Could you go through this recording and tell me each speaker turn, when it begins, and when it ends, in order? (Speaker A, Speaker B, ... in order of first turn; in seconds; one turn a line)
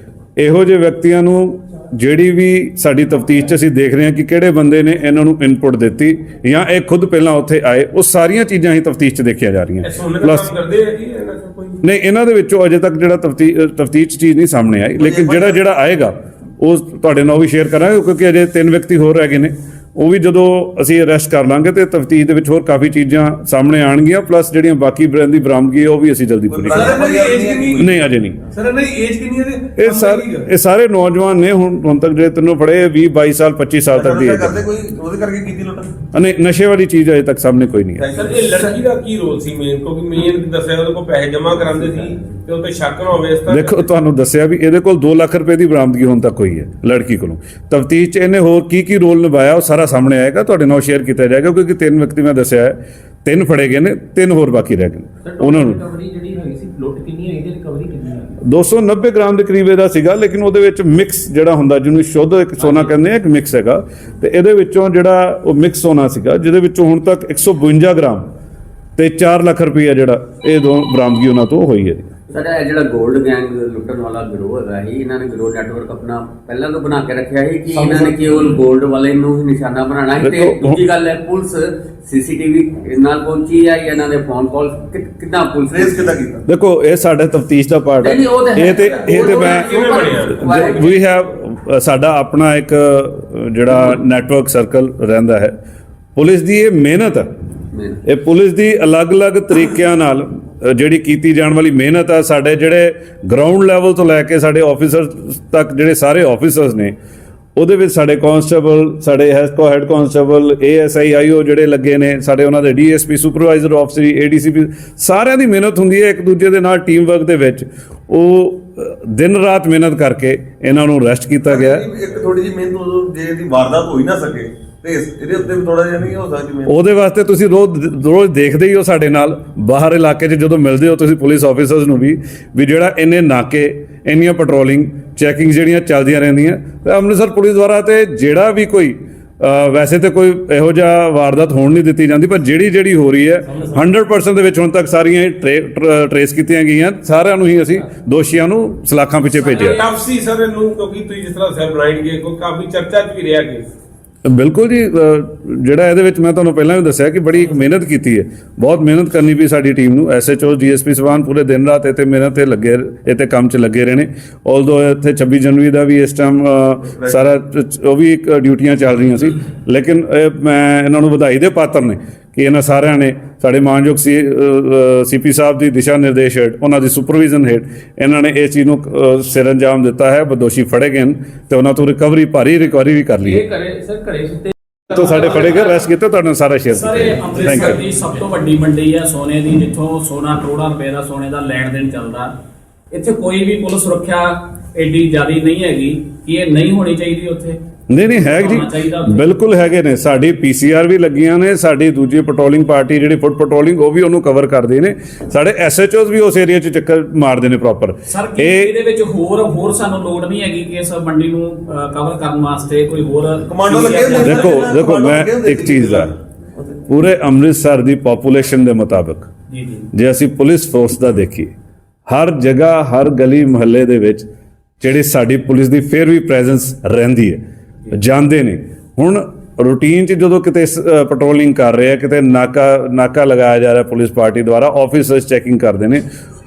Speaker A: 0.4-10.5
Speaker B: 9.8-11.8
Speaker A: 11.8-27.0
Speaker C: 15.0-15.6
Speaker C: 26.5-28.0
Speaker B: 26.7-27.9
Speaker A: 27.8-28.4
Speaker B: 28.5-30.4
Speaker A: 29.8-34.6
Speaker C: 33.9-35.9
Speaker A: 36.1-38.0
Speaker C: 38.0-38.7
Speaker B: 38.1-43.8
Speaker A: 43.5-55.8
Speaker D: 55.3-58.4
Speaker A: 58.4-68.2
Speaker A: 69.0-72.1
Speaker E: 72.3-86.2
Speaker A: 80.2-80.8
Speaker C: 85.7-86.4
Speaker A: 86.5-95.5
Speaker E: 88.0-90.9
Speaker B: 88.8-90.5
Speaker A: 96.2-97.3
Speaker E: 97.7-98.0
Speaker A: 98.0-106.9
Speaker A: 107.5-121.8
Speaker C: 121.5-126.7
Speaker A: 126.7-149.8
Speaker B: 149.5-153.7
Speaker A: 154.2-183.4
Speaker D: 183.3-185.3
Speaker A: 184.9-187.8
Speaker F: 185.2-185.8
Speaker F: 186.7-192.3
Speaker D: 187.5-187.8
Speaker F: 192.9-199.2
Speaker A: 197.9-208.7
Speaker F: 208.1-214.6
Speaker C: 213.5-216.1
Speaker A: 214.2-216.1
Speaker A: 216.8-219.3
Speaker F: 219.5-219.9
Speaker A: 219.9-221.5
Speaker A: 222.1-224.3
Speaker A: 224.8-236.0